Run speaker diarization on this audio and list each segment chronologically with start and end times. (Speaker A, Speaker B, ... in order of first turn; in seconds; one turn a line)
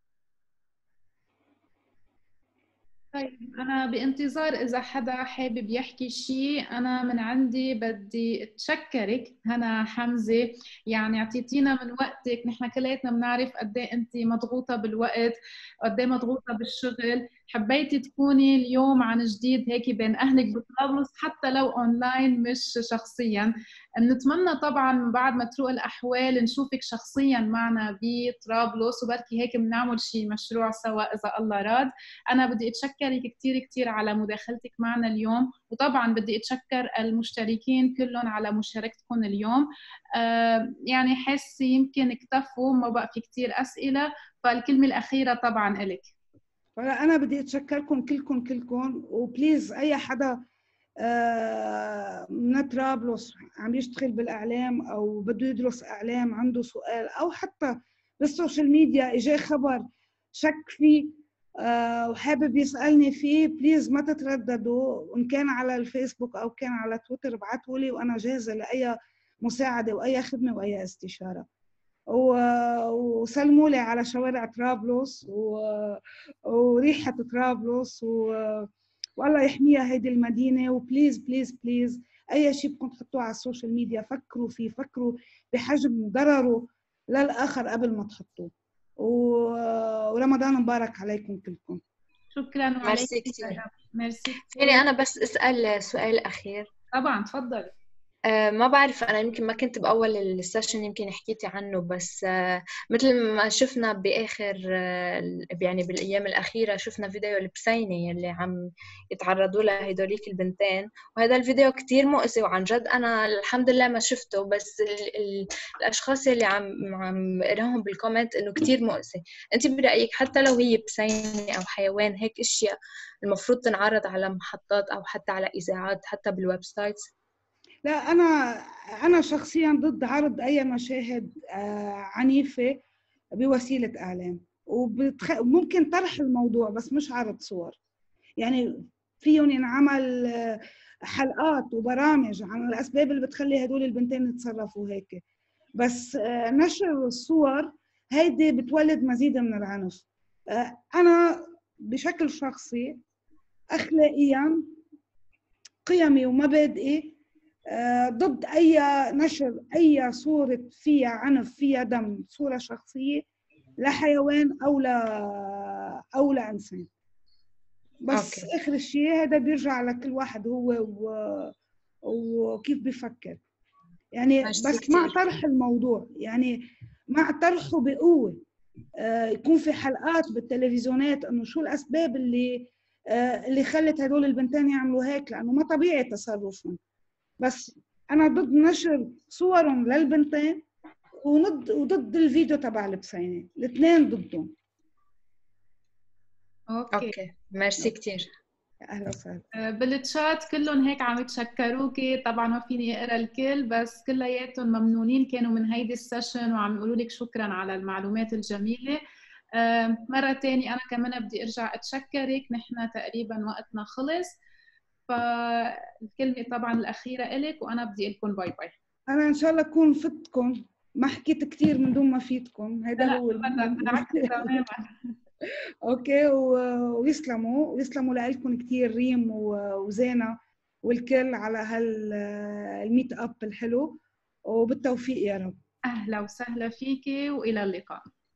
Speaker A: 3.1-46.1
Speaker B: 46.8-50.4
Speaker B: 51.0-71.5
Speaker B: 72.1-91.8
Speaker A: 92.3-94.8
Speaker C: 92.8-93.6
Speaker C: 94.5-96.7
Speaker A: 96.9-97.7
Speaker C: 98.3-108.6
Speaker C: 109.1-127.1
Speaker B: 127.8-132.8
Speaker B: 133.4-137.8
Speaker B: 138.4-145.2
Speaker B: 145.8-153.0
Speaker B: 153.7-154.8
Speaker B: 155.8-157.2
Speaker B: 157.7-163.2
Speaker B: 163.8-166.9
Speaker B: 168.0-171.5
Speaker C: 168.1-168.5
Speaker B: 172.1-173.4
Speaker B: 174.2-178.4
Speaker C: 174.4-175.2
Speaker B: 179.0-186.8
Speaker B: 187.4-190.6
Speaker B: 191.2-194.5
Speaker A: 196.7-197.1
Speaker C: 196.9-198.3
Speaker B: 198.8-199.5
Speaker A: 199.6-209.0
Speaker A: 209.6-214.3
Speaker A: 215.1-218.7
Speaker B: 219.1-224.6
Speaker A: 223.0-224.9
Speaker B: 225.8-235.6
Speaker A: 235.9-238.0